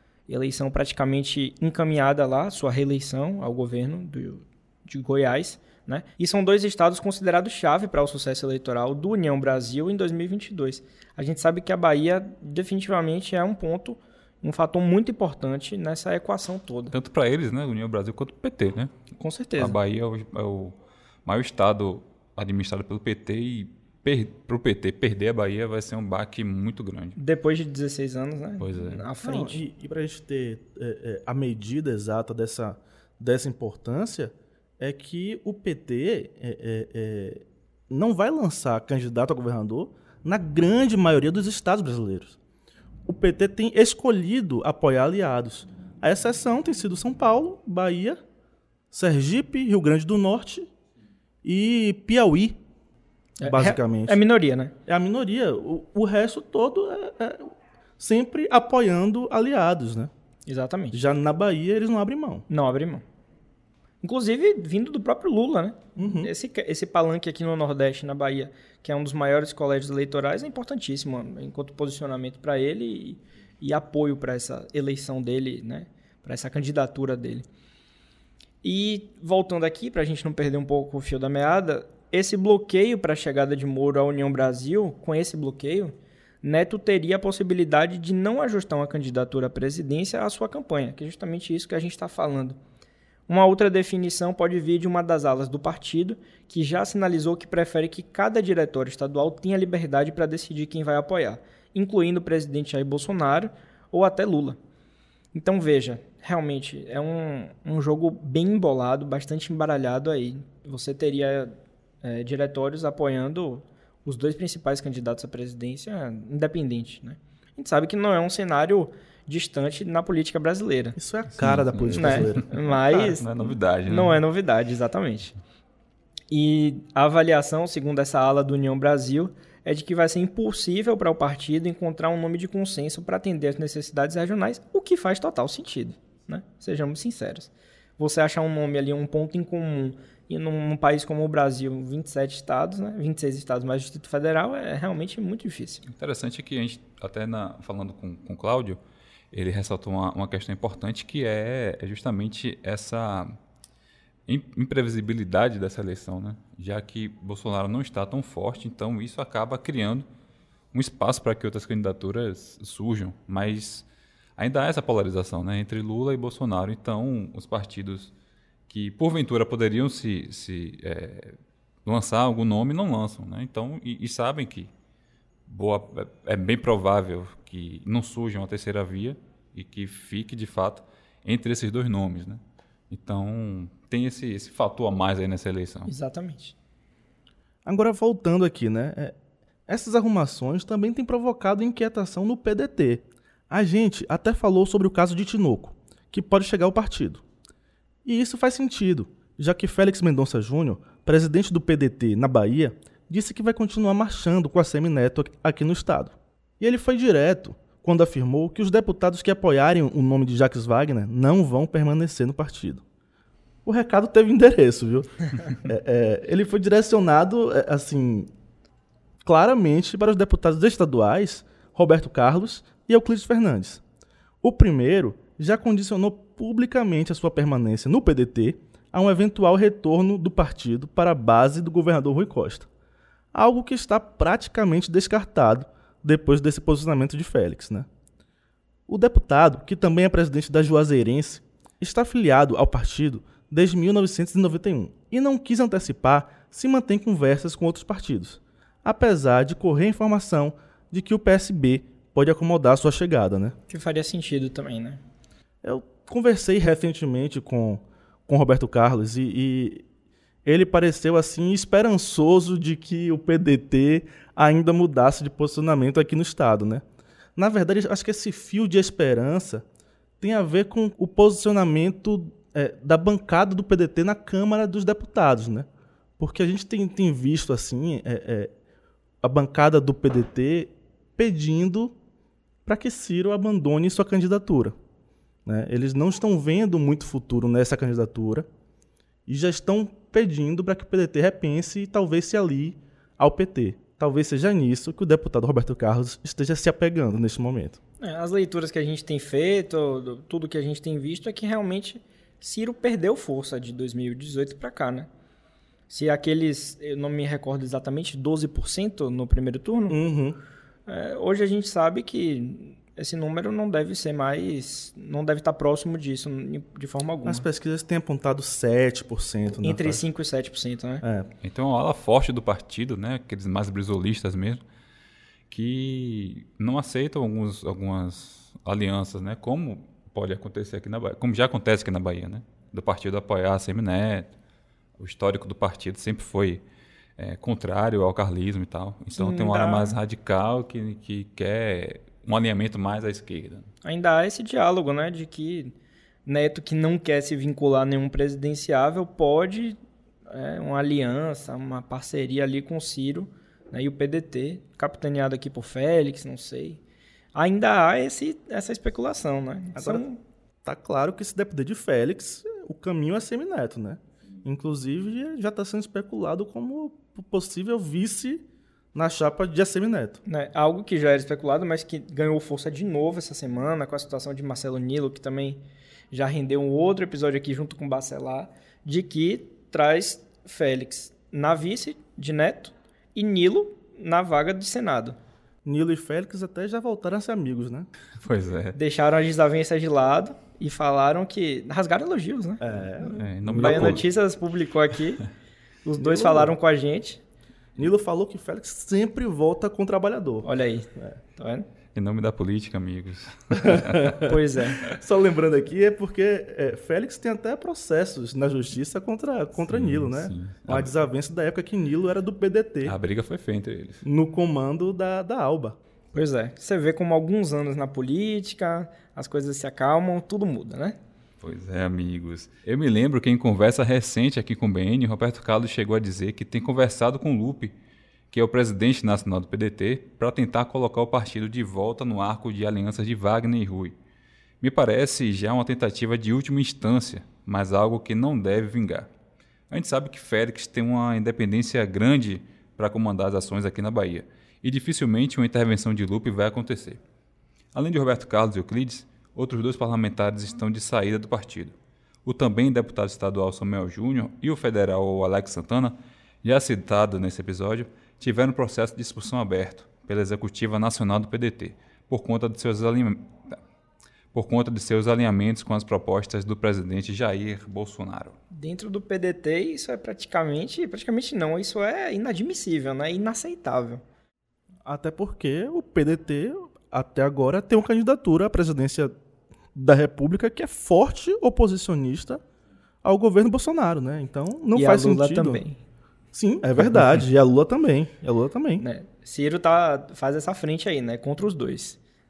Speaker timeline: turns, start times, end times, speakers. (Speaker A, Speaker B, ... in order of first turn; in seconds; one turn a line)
Speaker A: 0.3-16.9
Speaker B: 16.9-18.9
Speaker A: 19.2-19.8
Speaker B: 19.6-27.2
Speaker A: 27.1-29.6
Speaker B: 28.6-29.0
Speaker C: 29.2-42.4
Speaker C: 43.0-48.2
Speaker C: 48.9-50.7
Speaker C: 51.4-52.6
Speaker A: 53.4-54.7
Speaker C: 53.4-54.2
Speaker C: 54.9-60.1
Speaker A: 60.5-61.0
Speaker C: 60.9-62.4
Speaker A: 62.5-63.0
Speaker A: 64.0-77.5
Speaker C: 66.0-66.3
Speaker A: 78.6-92.6
Speaker A: 93.3-104.6
Speaker A: 105.3-121.0
Speaker C: 121.0-122.5
Speaker B: 121.4-124.2
Speaker A: 121.9-123.2
Speaker A: 123.9-125.3
Speaker A: 126.3-145.8
Speaker B: 145.8-148.8
Speaker B: 149.3-153.4
Speaker B: 154.3-160.1
Speaker B: 160.7-163.8
Speaker B: 164.4-168.1
Speaker B: 168.7-174.7
Speaker B: 175.5-185.9
Speaker A: 185.9-186.5
Speaker C: 187.7-189.2
Speaker C: 189.7-197.2
Speaker C: 198.0-212.8
Speaker C: 213.6-218.3
Speaker C: 219.2-223.8
Speaker C: 224.4-232.7
Speaker C: 233.3-237.9
Speaker C: 238.9-253.6
Speaker A: 253.7-255.0
Speaker C: 255.6-259.8
Speaker C: 260.4-266.8
Speaker C: 267.4-269.6
Speaker C: 270.2-275.7
Speaker C: 276.2-278.5
Speaker C: 279.2-281.9
Speaker C: 282.6-284.7
Speaker C: 285.4-288.5
Speaker C: 289.3-297.8
Speaker A: 298.0-305.1
Speaker A: 305.9-310.0
Speaker C: 309.9-310.4
Speaker A: 310.9-317.4
Speaker C: 317.2-320.0
Speaker A: 319.6-321.0
Speaker C: 321.0-321.3
Speaker B: 321.4-324.6
Speaker B: 325.5-334.3
Speaker B: 335.0-336.6
Speaker B: 337.2-343.7
Speaker A: 339.1-339.9
Speaker A: 343.8-345.7
Speaker A: 346.2-349.8
Speaker A: 350.3-356.8
Speaker A: 357.3-360.2
Speaker C: 359.8-360.0
Speaker C: 360.6-370.2
Speaker A: 370.2-375.6
Speaker A: 376.1-385.2
Speaker C: 385.6-387.9
Speaker B: 388.2-388.8
Speaker A: 388.7-395.2
Speaker C: 392.6-394.1
Speaker B: 393.2-394.1
Speaker A: 395.8-397.2
Speaker C: 396.0-396.5
Speaker C: 397.8-401.1
Speaker A: 400.4-401.7
Speaker B: 401.9-404.3
Speaker C: 403.5-412.9
Speaker A: 404.2-404.8
Speaker B: 409.7-410.9
Speaker B: 412.8-414.0
Speaker C: 414.0-415.8
Speaker A: 416.1-421.0
Speaker B: 421.4-427.7
Speaker B: 428.3-433.9
Speaker B: 434.6-439.1
Speaker B: 439.7-447.0
Speaker B: 447.7-463.6
Speaker B: 464.3-468.4
Speaker A: 468.5-474.0
Speaker C: 474.8-479.1
Speaker C: 479.7-482.4
Speaker C: 483.0-485.6
Speaker A: 484.7-485.8
Speaker C: 486.3-488.8
Speaker A: 488.8-492.0